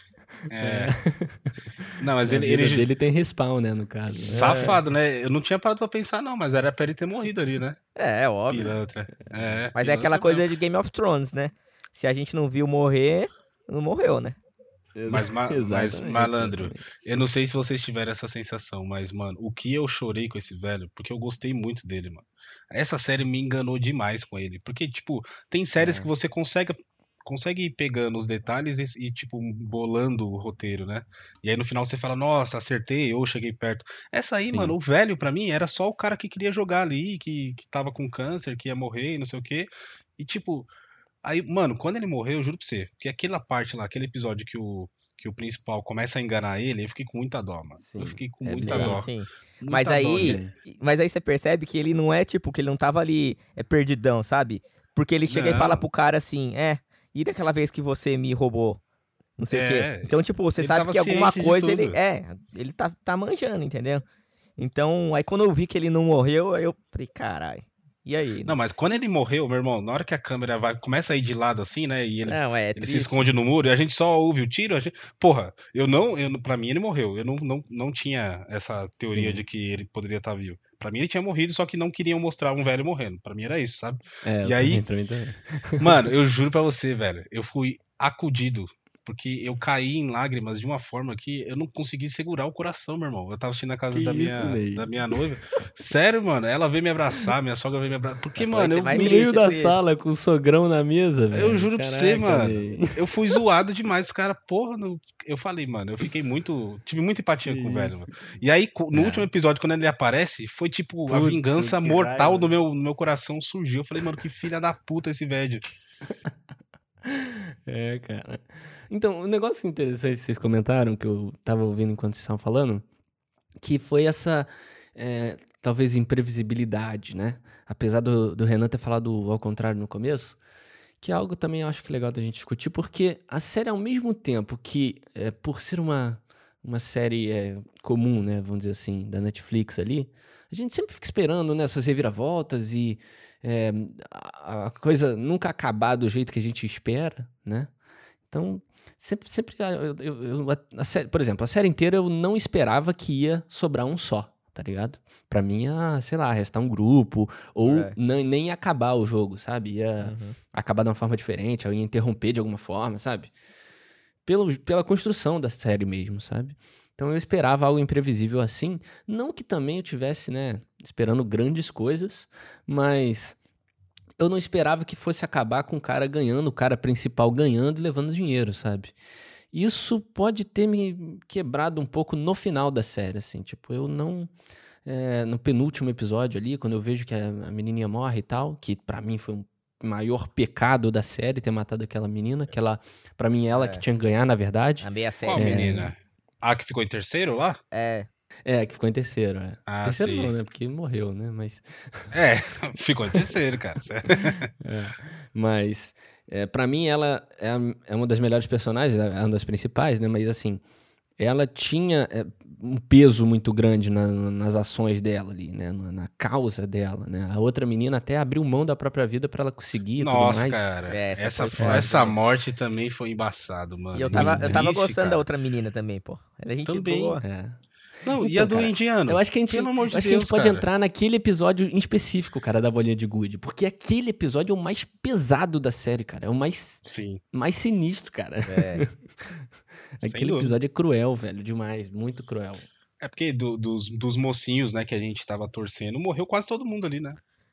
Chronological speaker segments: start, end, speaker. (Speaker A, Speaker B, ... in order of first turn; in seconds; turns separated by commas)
Speaker A: 0.4-4.8, Speaker B: 0.5-0.9, Speaker B: 2.0-2.9, Speaker B: 4.1-7.8, Speaker C: 4.3-4.8, Speaker C: 8.0-8.7, Speaker B: 8.5-10.5, Speaker C: 9.7-14.4, Speaker A: 14.9-17.0, Speaker B: 15.1-40.7, Speaker A: 25.8-26.1, Speaker A: 34.5-34.7, Speaker B: 41.2-49.1, Speaker A: 47.8-49.0, Speaker C: 48.6-58.8, Speaker B: 49.6-50.4, Speaker A: 50.1-50.5, Speaker B: 55.3-55.8, Speaker C: 59.4-64.0, Speaker B: 59.5-62.0, Speaker C: 64.6-68.5, Speaker B: 68.5-84.8, Speaker C: 72.3-73.2, Speaker A: 79.0-79.4, Speaker A: 84.2-86.1, Speaker B: 85.8-99.3, Speaker A: 93.9-95.3, Speaker C: 98.4-99.8, Speaker A: 98.9-103.4, Speaker B: 101.3-115.6, Speaker A: 107.4-108.1, Speaker A: 108.9-109.3, Speaker A: 111.1-112.5, Speaker A: 117.0-122.8, Speaker A: 123.6-130.4, Speaker A: 131.0-147.7, Speaker A: 148.3-163.3, Speaker C: 157.6-157.9, Speaker C: 160.0-160.4, Speaker A: 164.2-173.4, Speaker A: 174.2-178.9, Speaker A: 179.5-184.3, Speaker A: 184.8-195.9, Speaker C: 193.5-193.8, Speaker C: 194.8-195.8, Speaker B: 195.2-197.6, Speaker C: 197.7-198.1, Speaker A: 198.4-202.1, Speaker B: 199.7-200.3, Speaker B: 202.1-204.5, Speaker A: 203.1-203.4, Speaker A: 204.1-210.6, Speaker A: 211.2-220.7, Speaker B: 220.0-225.2, Speaker C: 220.9-222.1, Speaker A: 221.6-221.9, Speaker A: 223.9-224.6, Speaker C: 223.9-227.2, Speaker B: 226.7-227.2, Speaker A: 227.2-227.6, Speaker B: 228.0-230.7, Speaker A: 228.2-239.5, Speaker B: 236.8-237.2, Speaker C: 238.4-238.8, Speaker A: 240.0-242.7, Speaker B: 240.0-240.6, Speaker B: 243.0-247.2